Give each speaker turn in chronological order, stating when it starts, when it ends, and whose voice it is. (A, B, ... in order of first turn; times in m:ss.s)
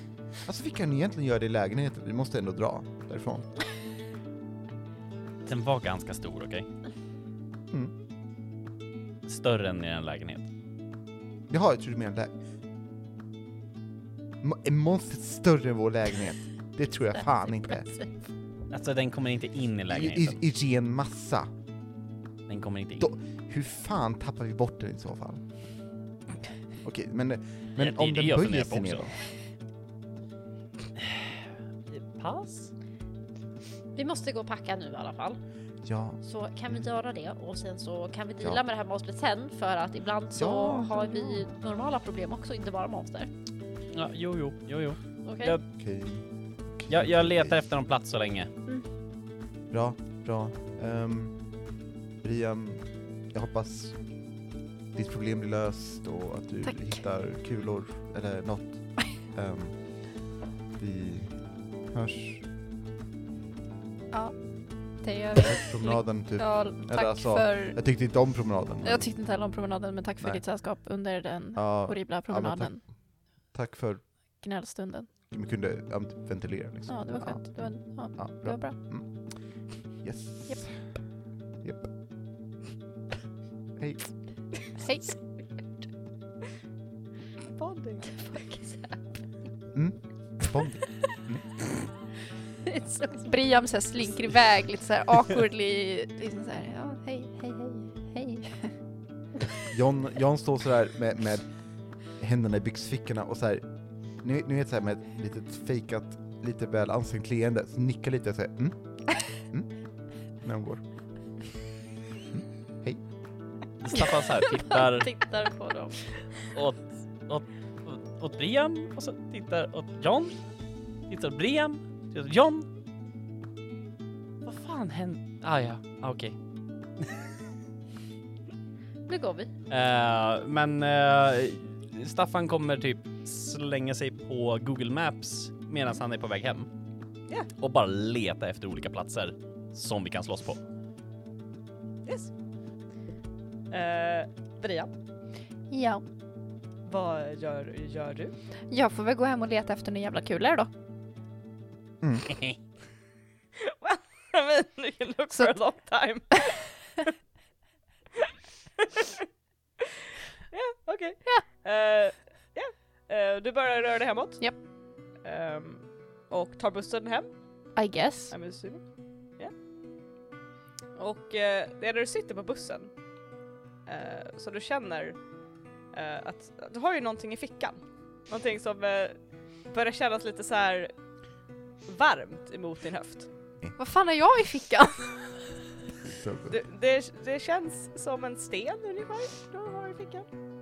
0:00.4-0:03.5 A
0:05.5-0:06.7 B
0:09.3-0:10.5 B
0:11.5-0:12.4 A
0:14.4-0:17.9 A
0:17.5-0:18.1 C
0:18.7-0:20.4 B
0:19.9-0:21.5 A
0:22.5-0:23.1 B
0:23.0-0:25.4 A
0:26.8-0:29.1 A
0:27.8-0:29.1 B
0:31.0-0:32.7 B
0:34.0-0:35.4 C
0:35.8-0:36.9 A
0:36.2-0:43.3 C
0:40.3-0:41.5 A
0:43.9-0:45.6 B
0:45.2-0:45.6 C
0:45.7-0:47.6 A
0:46.9-0:48.5 B
0:49.7-0:51.4 A
0:52.2-0:54.0 A
0:54.9-1:00.0 A
1:00.8-1:01.4 A
1:01.9-1:02.4 A
1:05.0-1:07.8 D
1:05.4-1:09.1 A
1:08.8-1:12.8 D
1:11.5-1:12.9 A
1:13.5-1:14.0 A
1:14.4-1:15.1 D
1:15.3-1:19.1 A
1:16.9-1:18.8 D
1:20.0-1:20.8 A
1:21.6-1:21.9 A
1:23.8-1:24.1 A
1:24.8-1:25.2 D
1:27.5-1:28.2 E
1:28.2-1:29.0 C
1:29.7-1:31.4 A
1:32.7-1:33.3 C
1:33.2-1:38.7 D
1:39.7-1:41.5 A
1:42.2-1:43.7 A
1:44.2-1:48.8 A
1:49.4-1:49.7 A
1:50.4-1:50.8 A
1:52.3-1:53.0 A
1:53.8-1:55.1 B
1:54.0-1:56.2 C
1:56.5-2:00.4 B
2:01.1-2:02.7 B
2:04.4-2:06.4 B
2:09.1-2:09.5 C
2:09.7-2:16.7 B
2:17.6-2:20.6 B
2:22.0-2:22.3 E
2:23.7-2:24.9 E
2:25.7-2:26.0 D
2:26.9-2:28.4 E
2:28.7-2:30.7 D
2:32.0-2:32.4 A
2:33.6-2:36.6 E
2:38.2-2:39.2 E
2:40.5-2:44.5 E
2:45.2-2:47.3 E
2:47.8-2:48.4 D
2:48.3-2:48.8 E
2:51.0-2:52.9 E
2:53.9-2:55.2 E
2:55.9-2:59.2 E
2:59.7-3:00.9 E
3:01.9-3:03.3 E
3:03.8-3:05.3 D
3:06.0-3:06.6 A
3:06.5-3:10.3 E